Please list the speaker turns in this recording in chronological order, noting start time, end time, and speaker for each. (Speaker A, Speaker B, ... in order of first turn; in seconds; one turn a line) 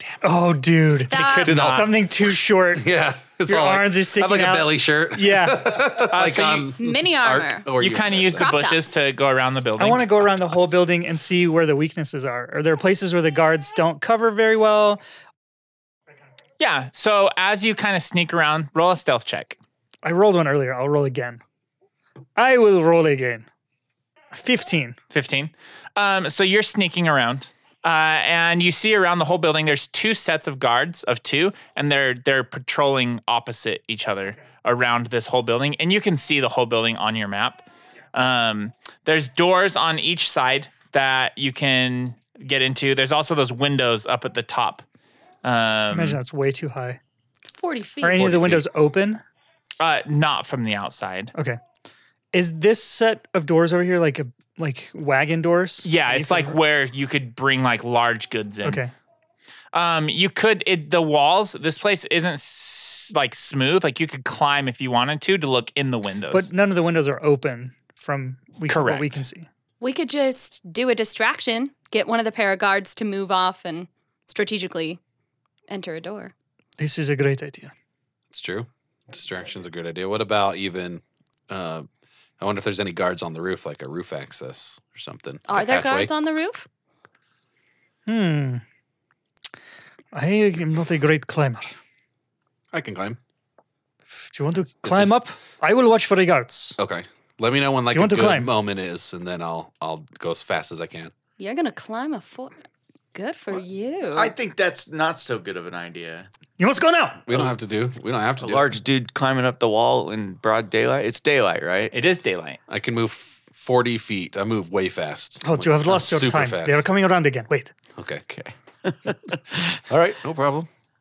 Speaker A: 0.2-2.9
Speaker B: 1.1-1.6
Speaker C: 1.1-1.9
Speaker D: 1.5-2.1
Speaker D: 2.7-8.5
Speaker A: 3.5-5.9
Speaker C: 6.1-6.7
Speaker B: 6.8-7.7
Speaker C: 7.8-10.2
Speaker B: 8.4-8.8
Speaker A: 9.8-15.0
Speaker C: 16.6-19.6
Speaker A: 20.0-21.4
Speaker A: 22.4-23.5
Speaker A: 24.3-25.0
Speaker C: 25.1-44.8
Speaker C: 45.4-46.2
Speaker A: 45.9-47.0
Speaker B: 47.5-48.3
Speaker A: 48.0-49.2
Speaker D: 48.2-48.7
Speaker C: 49.8-51.3
Speaker A: 52.3-56.6
Speaker C: 55.8-58.8
Speaker A: 58.6-58.9
Speaker C: 59.7-66.5
Speaker A: 66.3-69.5
Speaker C: 68.7-69.2
Speaker B: 69.8-75.0
Speaker B: 75.7-76.3
Speaker A: 76.8-77.7
Speaker D: 78.3-81.9
Speaker D: 82.4-86.1
Speaker B: 85.5-86.7
Speaker A: 88.1-88.6
Speaker A: 90.1-91.7
Speaker D: 92.7-93.2
Speaker A: 94.3-96.8
Speaker D: 94.8-95.2
Speaker D: 96.8-101.1
Speaker A: 97.9-98.5
Speaker B: 101.4-102.6
Speaker B: 103.1-104.3
Speaker E: 104.1-106.3
Speaker A: 106.6-107.3
Speaker D: 107.3-108.7
Speaker E: 108.4-111.9
Speaker C: 111.9-112.6
Speaker D: 112.7-116.8
Speaker A: 115.4-117.7
Speaker D: 118.0-118.2
Speaker E: 118.3-119.8
Speaker D: 119.9-120.7